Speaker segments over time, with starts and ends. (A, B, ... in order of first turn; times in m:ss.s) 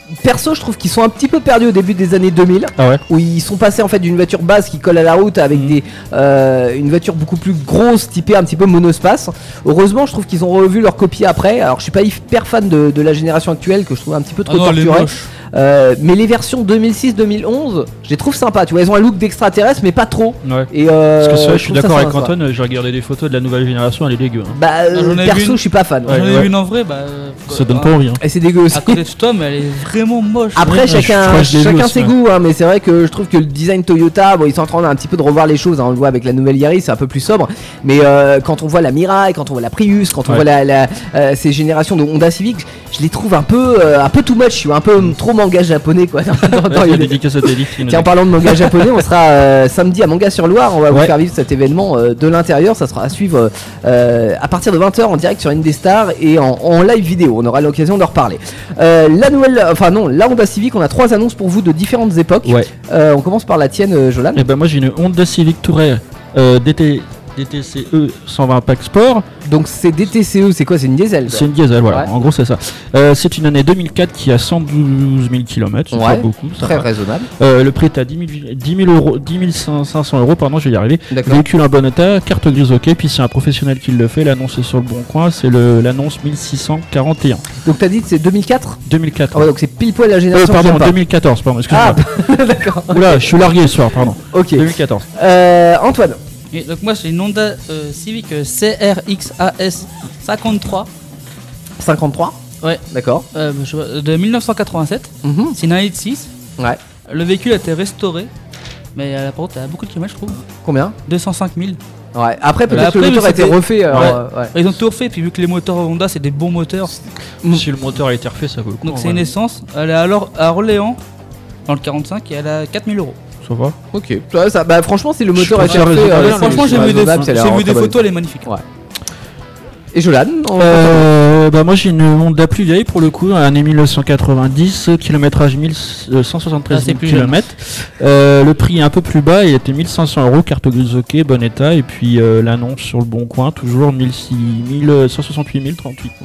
0:00.2-0:22.3 A
0:14.5-0:15.3 B
0:20.4-0:24.6 C
0:24.5-0:26.3 A
0:24.9-0:27.9 B
0:26.1-0:26.5 C
0:27.5-0:28.2 C
0:28.2-0:29.0 A
0:28.7-0:30.8 B
0:30.6-0:47.2 A
0:30.6-0:32.1 C
0:46.5-0:48.9 C
0:47.8-1:04.5 A
1:04.4-1:09.2 C
1:09.4-1:12.1 A
1:11.3-1:27.4 C
1:15.9-1:17.3 A
1:21.1-1:21.4 A
1:27.6-1:28.8 A
1:28.9-1:29.5 C
1:29.3-1:31.0 A
1:30.3-1:32.0 C
1:31.7-1:33.3 A
1:32.9-1:35.1 C
1:34.3-1:36.2 A
1:36.5-1:40.9 B
1:41.8-1:42.4 A
1:42.9-1:43.3 A
1:43.3-1:46.3 B
1:45.2-1:45.6 A
1:47.1-1:48.3 B
1:49.0-1:50.4 B
1:50.6-1:51.0 A
1:51.1-1:51.8 B
1:52.1-1:54.5 A
1:52.7-1:56.9 B
1:53.9-1:54.2 C
1:57.5-1:59.3 C
1:58.8-2:01.0 B
2:01.7-2:03.2 B
2:03.4-2:03.8 C
2:03.9-2:08.6 A
2:05.4-2:07.3 C
2:05.7-2:08.5 B
2:09.9-2:11.1 A
2:10.6-2:26.1 C
2:16.7-2:17.5 B